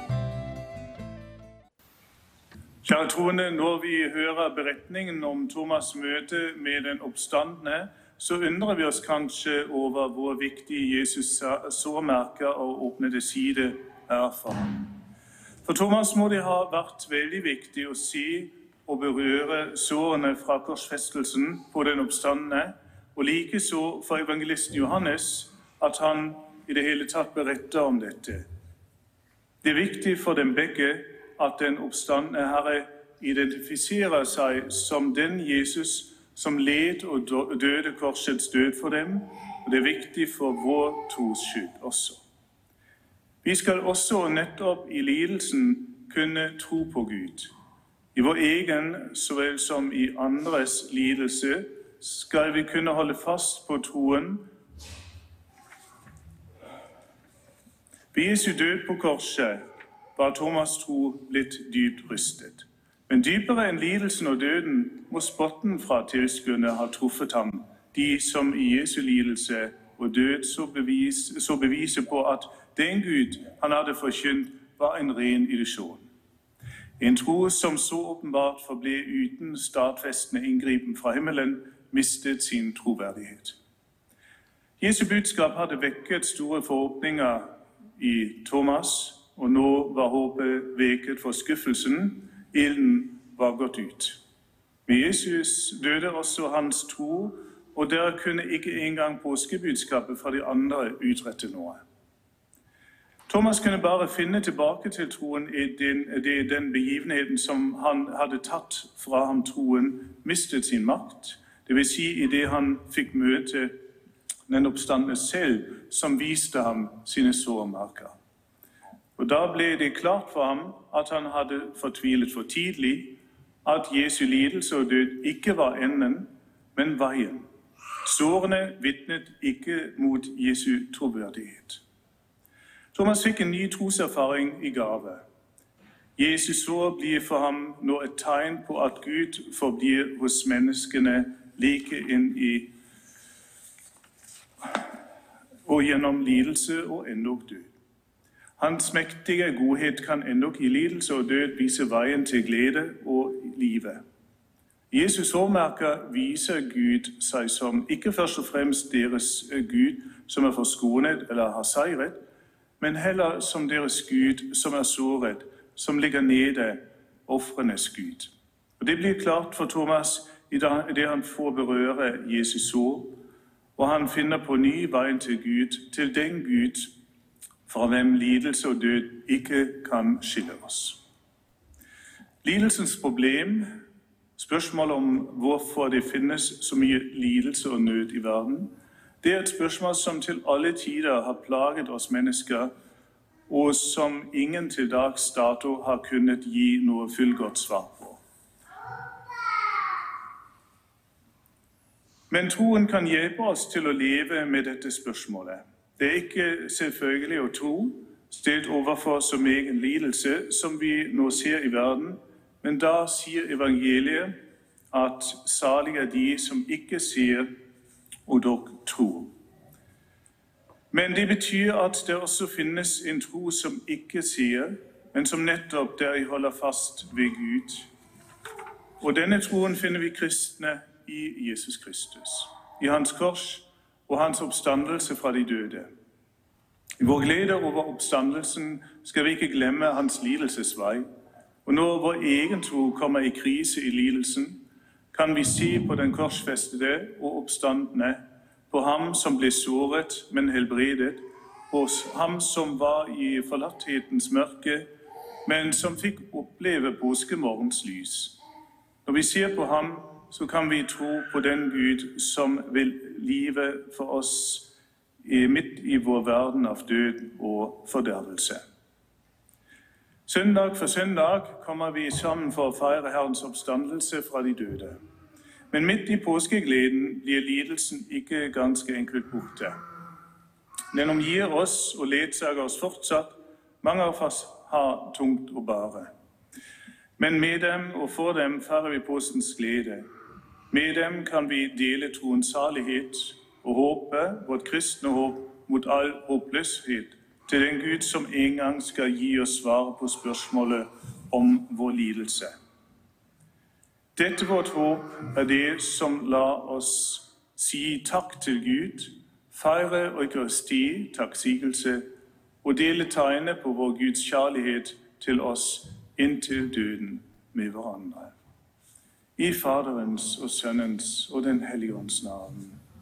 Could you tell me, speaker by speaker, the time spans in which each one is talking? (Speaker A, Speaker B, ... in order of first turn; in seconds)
Speaker A: 2.8-14.9, 15.6-28.4, 29.6-42.2, 43.4-47.5, 48.1-54.5, 58.1-76.1, 77.0-83.6, 84.8-94.2, 94.8-101.8, 103.3-113.7, 114.5-118.1, 119.2-127.5, 128.0-131.8, 132.9-135.2, 136.2-142.7, 145.7-147.7, 148.6-154.0, 154.9-162.2, 162.8-173.2, 173.8-176.9, 177.7-181.0, 182.4-183.8, 184.3-192.7, 193.5-198.2, 202.3-214.3, 214.9-217.5, 218.2-219.3, 220.9-227.9, 229.0-235.9, 237.0-241.1, 241.6-244.6, 245.1-254.9, 255.4-258.4, 259.0-268.6, 270.3-275.0, 275.7-279.8, 280.9-286.1, 287.2-290.1, 290.7-302.5, 304.1-312.1, 312.6-318.3, 319.4-322.8